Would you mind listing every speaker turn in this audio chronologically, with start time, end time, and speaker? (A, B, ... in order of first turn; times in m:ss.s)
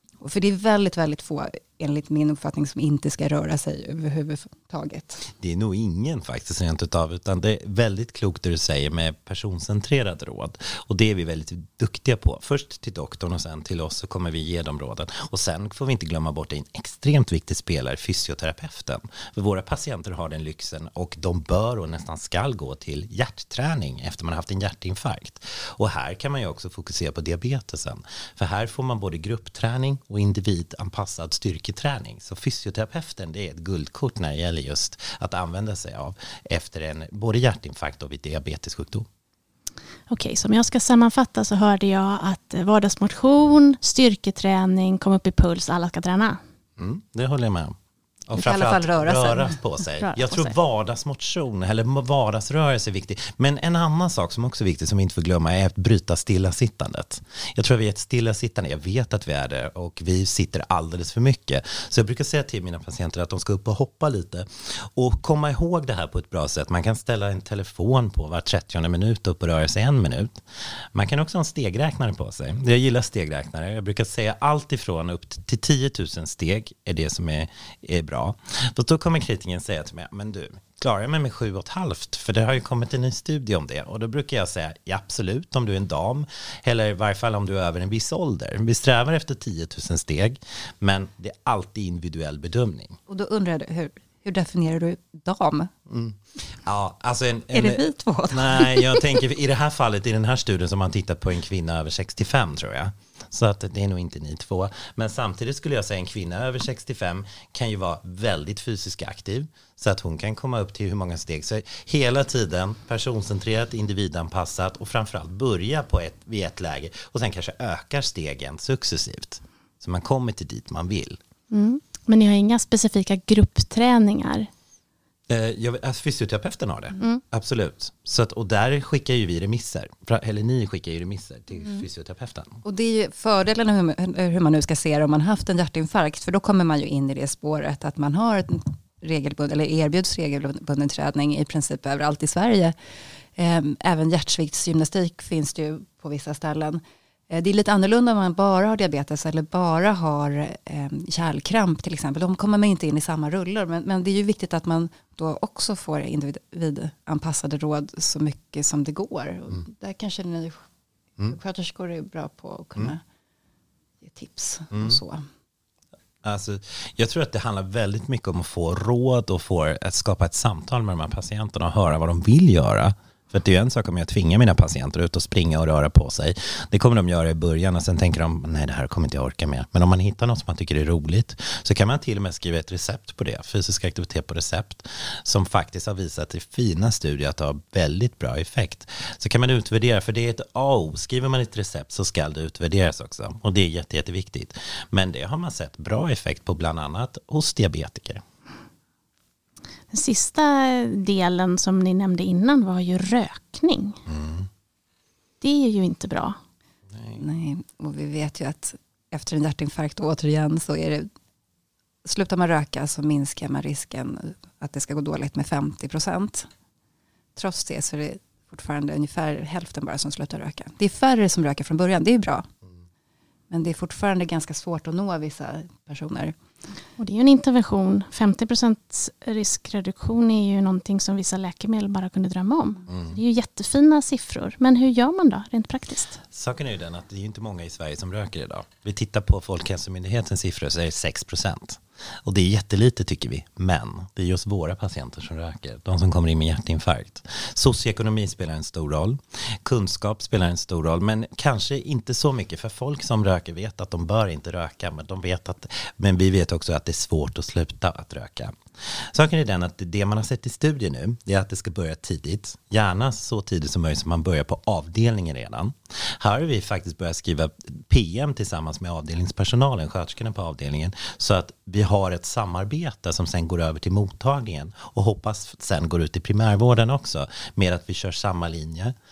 0:00.2-0:05.3 A
0:05.4-0:39.1 B
0:40.1-0:46.4 C
0:46.8-0:47.8 B
0:48.3-1:10.4 B
0:48.4-0:49.6 A
0:50.0-0:50.5 C
1:10.9-1:33.0 B
1:33.1-1:35.7 A
1:35.9-2:01.2 B
1:37.5-1:39.0 A
2:01.5-2:04.5 C
2:05.3-2:12.6 B
2:12.6-2:22.7 A
2:23.4-2:40.6 A
2:41.3-2:43.0 A
2:44.0-2:45.3 A
2:44.7-2:45.0 B
2:46.2-3:18.2 B
3:19.9-3:24.0 C
3:24.1-3:24.5 B
3:25.4-3:26.4 C
3:27.1-3:31.1 A
3:32.0-3:36.5 A
3:37.4-3:42.5 A
3:43.5-3:46.4 A
3:47.0-3:56.2 C
3:56.3-4:39.0 B